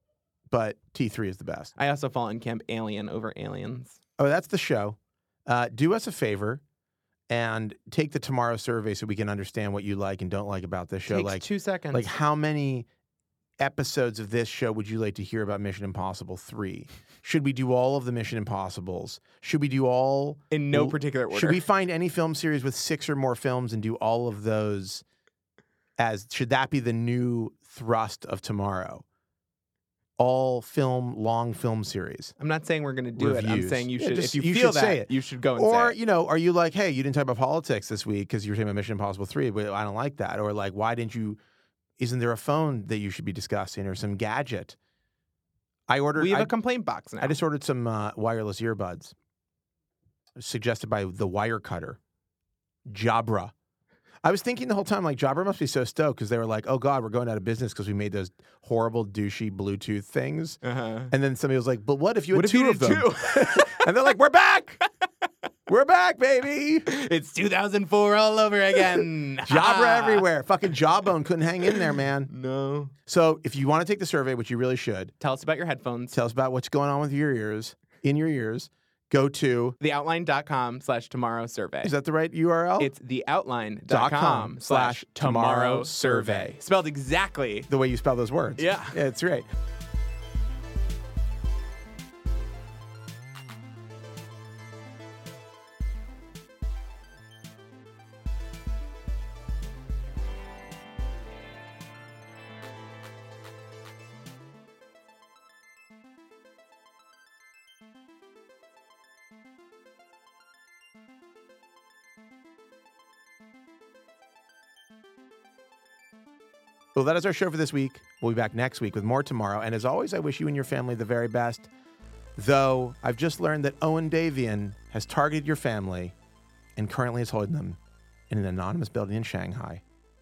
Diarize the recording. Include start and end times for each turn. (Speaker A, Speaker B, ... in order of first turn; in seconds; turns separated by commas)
Speaker A: 0.5-1.7, Speaker B: 1.8-4.0, Speaker A: 4.2-6.6, Speaker A: 7.3-12.9, Speaker B: 11.1-12.1, Speaker A: 13.6-25.0, Speaker B: 20.5-21.6, Speaker A: 26.0-29.0, Speaker A: 30.2-32.3, Speaker B: 32.4-36.0, Speaker A: 33.1-41.4, Speaker A: 42.0-44.8, Speaker A: 45.9-46.5, Speaker B: 46.1-47.4, Speaker A: 47.2-49.1, Speaker A: 50.4-52.0, Speaker A: 52.9-53.5, Speaker A: 54.2-64.8, Speaker B: 60.6-61.1, Speaker B: 62.3-63.9, Speaker A: 65.7-66.9, Speaker B: 66.9-70.2, Speaker A: 68.9-72.3, Speaker B: 72.3-72.9, Speaker A: 73.0-75.1, Speaker B: 75.2-76.2, Speaker A: 76.1-79.8, Speaker B: 79.8-81.9, Speaker A: 81.8-82.9, Speaker B: 82.8-87.7, Speaker A: 83.9-86.5, Speaker A: 87.7-89.5, Speaker B: 88.6-89.0, Speaker A: 116.9-121.7, Speaker A: 122.3-126.1, Speaker A: 126.8-127.8, Speaker A: 128.3-129.8